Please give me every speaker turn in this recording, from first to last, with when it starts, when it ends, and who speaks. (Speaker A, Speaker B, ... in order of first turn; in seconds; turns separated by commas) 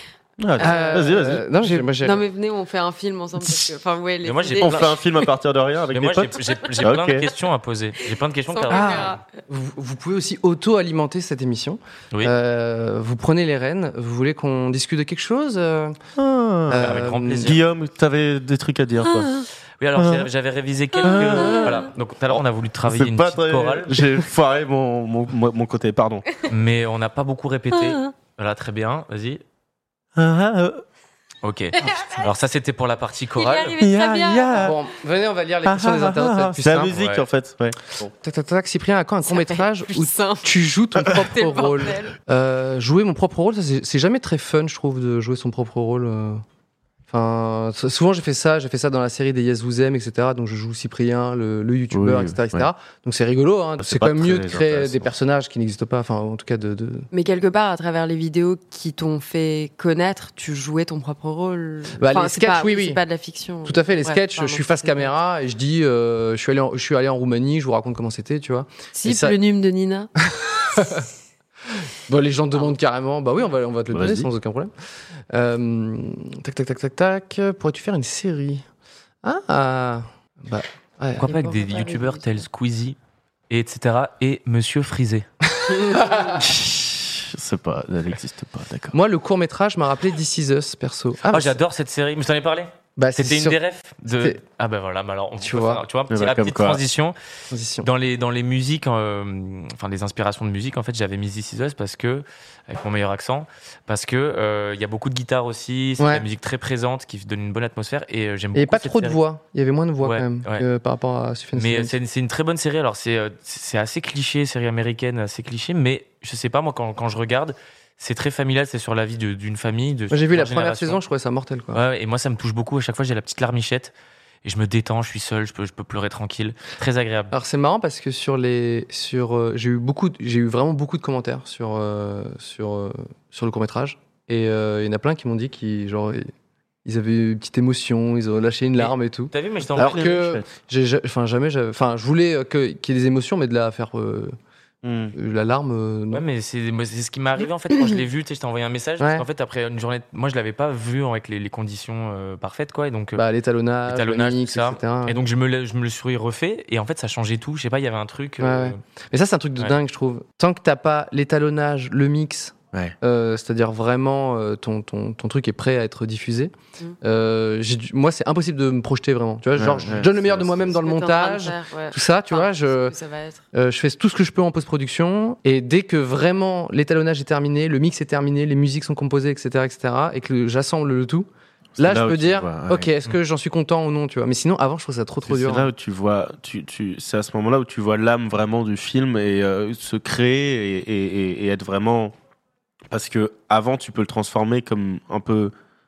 Speaker A: 0.4-1.8, Speaker B: 0.6-2.2, Speaker C: 0.6-1.1, Speaker C: 2.0-5.0, Speaker D: 4.2-5.0, Speaker A: 4.6-7.3, Speaker D: 5.9-9.2, Speaker C: 8.5-9.2, Speaker B: 8.7-16.0, Speaker A: 16.1-19.4, Speaker B: 16.7-17.5, Speaker D: 16.8-17.6, Speaker D: 19.8-23.9, Speaker A: 19.9-20.3, Speaker A: 21.0-26.3, Speaker D: 26.5-29.4, Speaker A: 30.1-30.8, Speaker D: 31.4-33.8, Speaker C: 31.8-32.3, Speaker C: 33.4-34.7, Speaker A: 33.8-34.8, Speaker B: 34.5-36.9, Speaker A: 35.6-38.1, Speaker D: 36.9-37.2, Speaker B: 38.2-46.4, Speaker C: 39.2-40.5, Speaker C: 41.0-42.1, Speaker B: 47.1-57.1, Speaker A: 51.9-52.7, Speaker A: 53.8-55.1, Speaker C: 57.1-65.1, Speaker B: 62.0-63.0, Speaker B: 63.6-69.3, Speaker C: 68.9-70.1, Speaker B: 70.3-71.0, Speaker B: 72.0-74.7, Speaker A: 73.9-74.3, Speaker B: 75.3-78.7, Speaker B: 79.2-81.3, Speaker D: 81.2-83.0, Speaker C: 81.2-82.4, Speaker D: 83.5-85.3, Speaker B: 85.7-86.5, Speaker C: 85.8-86.4, Speaker A: 86.4-89.0, Speaker B: 88.9-91.6, Speaker D: 91.3-97.1, Speaker B: 93.0-93.6, Speaker B: 95.4-95.8, Speaker A: 96.1-96.8, Speaker B: 97.5-97.9, Speaker D: 97.8-109.2, Speaker B: 106.0-106.2, Speaker B: 108.5-111.9, Speaker D: 110.0-110.6, Speaker D: 111.5-121.0, Speaker B: 120.1-121.8, Speaker D: 121.7-123.9, Speaker D: 124.4-127.3, Speaker B: 127.3-136.3, Speaker B: 136.8-144.3, Speaker D: 138.8-140.2, Speaker A: 139.8-140.5, Speaker A: 144.8-145.1, Speaker B: 145.1-146.2, Speaker D: 146.1-153.2, Speaker B: 149.0-149.2, Speaker B: 153.1-155.2, Speaker D: 153.8-158.8, Speaker B: 158.4-172.9, Speaker A: 169.5-170.7, Speaker C: 170.7-173.4, Speaker B: 173.5-185.7, Speaker A: 181.8-182.9, Speaker A: 185.3-192.1, Speaker A: 192.9-195.5